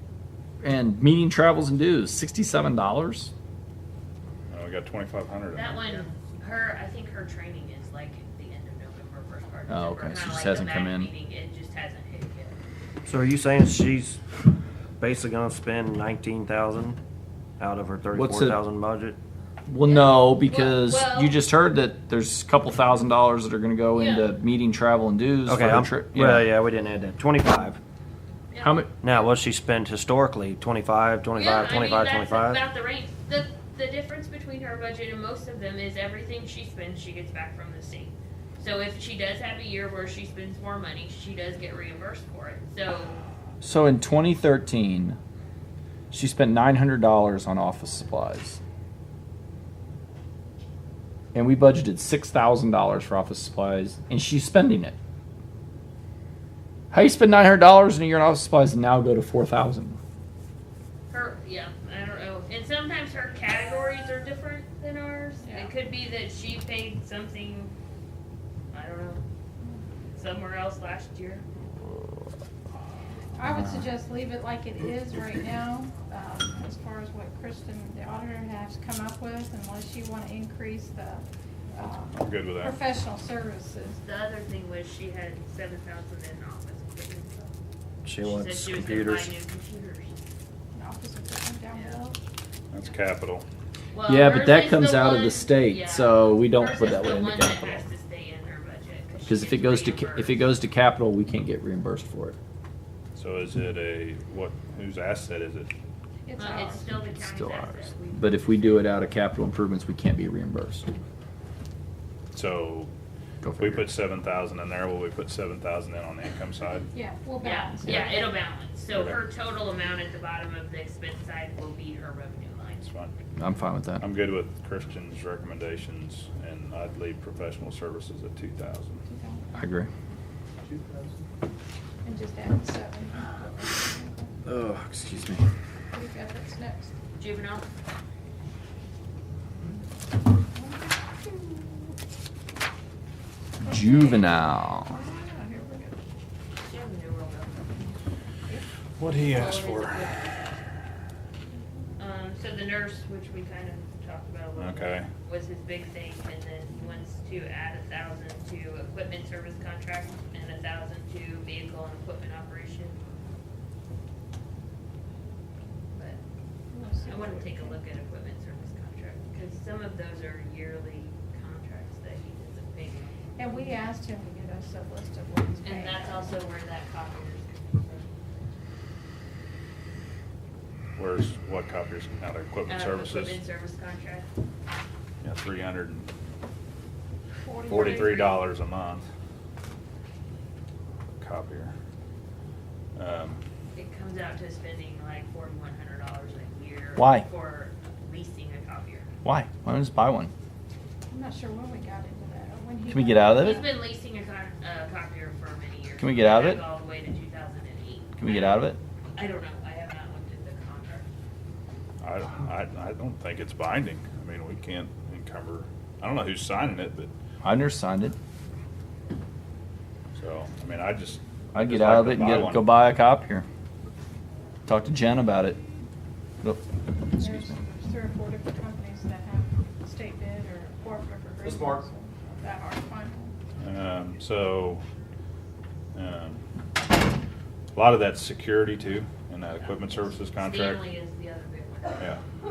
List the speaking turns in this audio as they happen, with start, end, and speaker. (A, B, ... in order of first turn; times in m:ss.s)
0:00.6-0:03.3 A
0:04.5-0:06.0 B
0:05.5-0:12.6 C
0:09.7-0:11.1 A
0:13.0-0:14.2 D
0:15.0-0:17.0 D
0:17.6-0:19.2 D
0:18.2-0:18.6 A
0:19.7-0:26.5 A
0:19.8-0:21.6 C
0:23.9-0:24.3 C
0:25.4-0:27.8 D
0:28.5-0:28.8 C
0:28.6-0:28.9 A
0:29.0-0:32.6 D
0:31.3-0:43.2 C
0:43.6-0:45.2 A
0:46.1-0:48.6 A
0:51.3-0:54.9 A
0:56.9-1:00.0 A
1:01.1-1:07.7 C
1:05.4-1:05.7 E
1:08.7-1:09.2 C
1:10.1-1:11.4 C
1:13.4-1:24.0 E
1:22.1-1:22.8 B
1:24.0-1:27.5 C
1:28.0-1:29.3 D
1:28.2-1:30.2 C
1:30.7-1:32.2 E
1:31.7-1:32.0 C
1:32.7-1:33.4 B
1:33.9-1:40.5 C
1:34.1-1:37.8 A
1:39.3-1:42.4 A
1:43.1-1:45.7 B
1:46.2-1:46.9 E
1:46.4-1:48.9 C
1:47.1-1:50.9 A
1:52.3-1:52.9 B
1:53.4-1:53.8 A
1:53.6-1:56.9 B
1:56.9-1:58.4 E
1:57.4-2:02.8 C
1:58.9-1:59.2 B
2:02.8-2:03.1 B
2:03.4-2:04.0 A
2:04.0-2:09.0 B
2:09.0-2:09.5 E
2:09.5-2:09.9 A
2:12.0-2:14.4 E
2:14.4-2:15.4 A
2:15.9-2:16.9 E
2:17.2-2:17.7 C
2:20.4-2:21.9 E
2:23.6-2:26.0 E
2:23.6-2:25.0 A
2:26.6-2:28.0 C
2:29.0-2:30.0 B
2:29.2-2:30.8 C
2:32.0-2:43.0 C
2:34.6-2:35.1 B
2:45.9-2:46.2 C
2:46.7-2:47.8 E
2:47.0-2:53.8 C
2:53.4-2:56.4 E
2:55.6-2:58.1 C
3:01.0-3:03.4 B
3:02.6-3:04.3 C
3:05.2-3:06.1 B
3:07.4-3:08.4 E
3:07.7-3:08.4 C
3:07.7-3:09.0 B
3:11.2-3:11.7 B
3:13.0-3:13.4 B
3:13.7-3:19.1 C
3:17.0-3:17.2 A
3:19.2-3:20.3 A
3:21.1-3:23.7 E
3:22.9-3:23.6 A
3:23.4-3:31.1 C
3:26.0-3:26.6 A
3:28.2-3:28.8 A
3:32.0-3:37.1 B
3:37.4-3:38.2 A
3:40.1-3:42.7 B
3:41.5-3:43.4 A
3:44.6-3:45.6 A
3:47.2-3:53.3 E
3:53.6-3:54.8 B
3:55.9-3:56.4 B
3:57.7-4:00.8 B
4:00.4-4:02.1 C